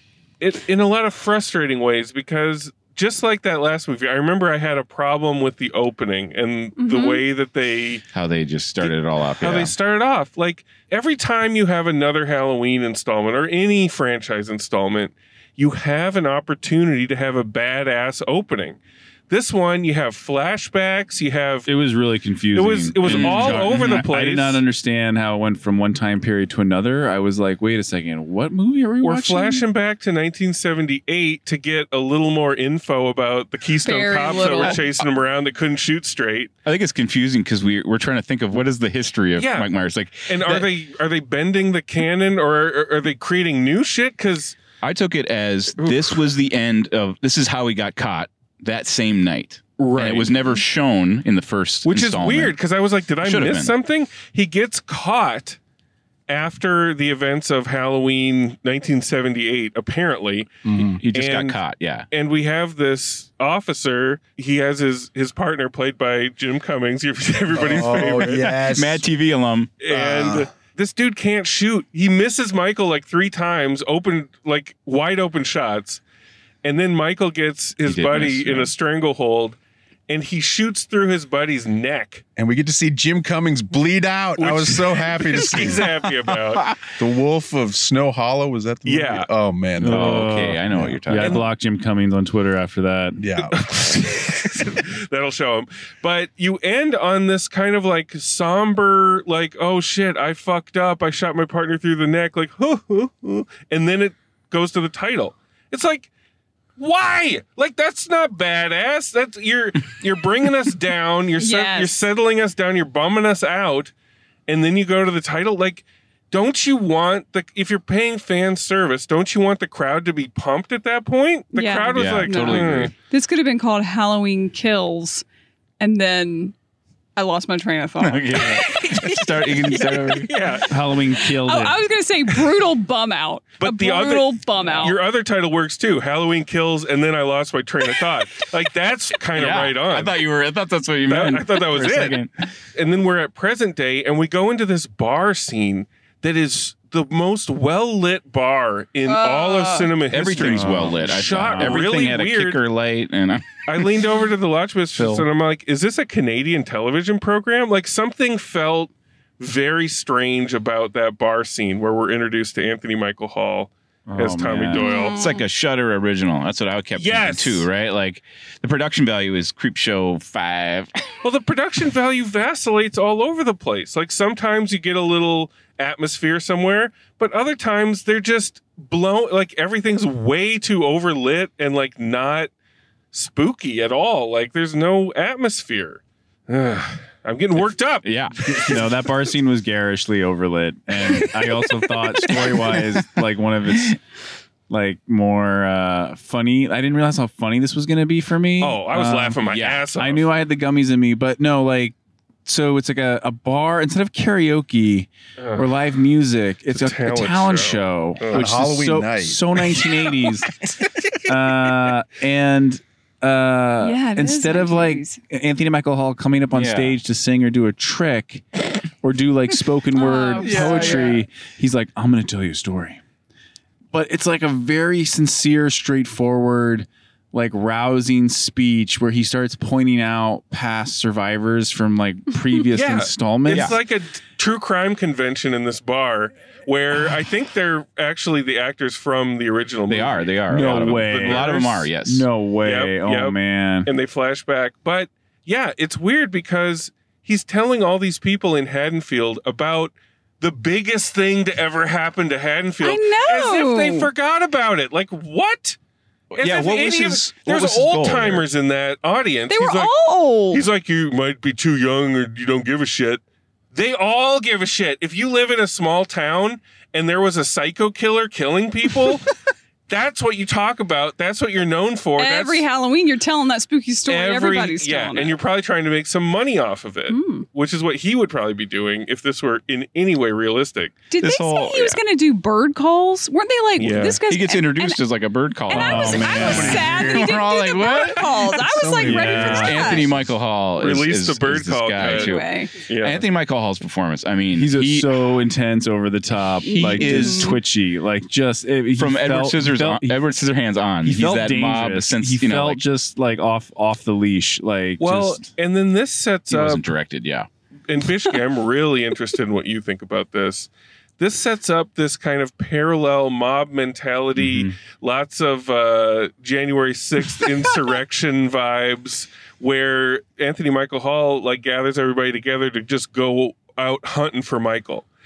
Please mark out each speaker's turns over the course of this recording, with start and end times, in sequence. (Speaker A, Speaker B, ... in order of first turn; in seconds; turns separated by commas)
Speaker A: 0.4-8.0, Speaker B: 6.8-7.2, Speaker C: 8.1-9.7, Speaker A: 8.8-18.8, Speaker A: 19.3-21.7, Speaker D: 21.6-29.6, Speaker A: 22.5-24.6, Speaker C: 23.0-24.0, Speaker A: 29.0-36.5, Speaker B: 33.8-34.8, Speaker C: 36.6-40.7, Speaker A: 39.4-39.7, Speaker A: 40.2-44.6, Speaker C: 44.8-52.6, Speaker A: 45.8-46.2, Speaker A: 49.8-50.3, Speaker A: 51.8-55.6, Speaker C: 53.2-53.7, Speaker A: 56.3-60.5, Speaker E: 60.6-61.0, Speaker C: 61.0-62.1, Speaker A: 61.1-68.5, Speaker E: 67.5-69.0, Speaker C: 67.7-69.7, Speaker A: 69.8-76.0, Speaker E: 69.9-70.5, Speaker A: 76.6-79.6, Speaker C: 77.8-78.7, Speaker A: 80.1-82.2, Speaker E: 82.3-85.8, Speaker A: 84.4-86.7, Speaker C: 85.6-86.8, Speaker E: 87.0-91.0, Speaker A: 88.8-89.3, Speaker D: 89.8-93.2, Speaker C: 89.8-91.4, Speaker A: 91.2-91.4, Speaker E: 93.2-93.6, Speaker A: 93.5-106.1, Speaker A: 106.8-113.9, Speaker B: 111.4-112.0, Speaker A: 114.5-122.9, Speaker B: 121.5-125.2, Speaker C: 121.9-122.9, Speaker B: 125.8-126.5, Speaker B: 127.2-130.5, Speaker C: 128.0-130.3, Speaker A: 130.2-130.7, Speaker D: 130.7-131.8, Speaker B: 131.2-135.0, Speaker A: 133.6-140.2, Speaker C: 139.3-142.4, Speaker A: 141.1-142.2, Speaker A: 142.7-152.6, Speaker B: 149.0-150.0, Speaker C: 150.1-153.9, Speaker D: 150.4-151.9, Speaker A: 153.7-165.2, Speaker D: 155.0-155.2, Speaker D: 164.1-164.9, Speaker C: 164.7-170.9, Speaker B: 164.8-165.4, Speaker A: 166.9-167.7, Speaker A: 171.2-182.5, Speaker A: 183.1-188.1, Speaker C: 188.0-188.9, Speaker D: 188.5-194.0, Speaker C: 192.3-193.1, Speaker D: 194.7-199.4, Speaker A: 198.6-200.2, Speaker C: 199.5-199.9, Speaker D: 199.9-210.5, Speaker A: 205.4-205.7, Speaker A: 206.7-208.4, Speaker E: 208.3-209.4, Speaker D: 211.2-218.4, Speaker B: 213.8-215.2, Speaker C: 216.5-217.0, Speaker D: 219.0-223.0, Speaker B: 219.9-221.2, Speaker C: 220.4-221.1, Speaker D: 223.9-233.8, Speaker A: 232.7-241.9, Speaker C: 233.5-233.8, Speaker C: 239.9-242.3, Speaker D: 240.5-241.5, Speaker D: 242.0-243.9, Speaker A: 242.6-255.8, Speaker B: 252.8-254.1, Speaker A: 256.3-259.9, Speaker C: 256.3-258.4, Speaker B: 259.5-260.6, Speaker A: 260.5-263.2, Speaker A: 263.7-269.3, Speaker A: 269.9-272.6, Speaker B: 272.2-275.4, Speaker A: 274.1-281.0, Speaker B: 277.1-277.4, Speaker B: 281.1-285.0, Speaker C: 281.2-282.0, Speaker A: 283.8-284.2, Speaker C: 284.3-288.4, Speaker B: 285.7-290.1, Speaker D: 285.7-286.9, Speaker E: 286.7-287.3, Speaker E: 288.6-290.2, Speaker C: 289.0-295.1, Speaker D: 289.0-289.8, Speaker A: 290.8-292.4, Speaker B: 292.0-292.9, Speaker A: 292.9-293.2, Speaker D: 294.5-300.2, Speaker B: 296.6-297.6, Speaker C: 296.7-297.6, Speaker C: 298.9-302.8, Speaker D: 301.0-305.5, Speaker A: 305.0-306.8, Speaker C: 306.5-307.5, Speaker A: 307.9-325.1, Speaker C: 314.4-314.7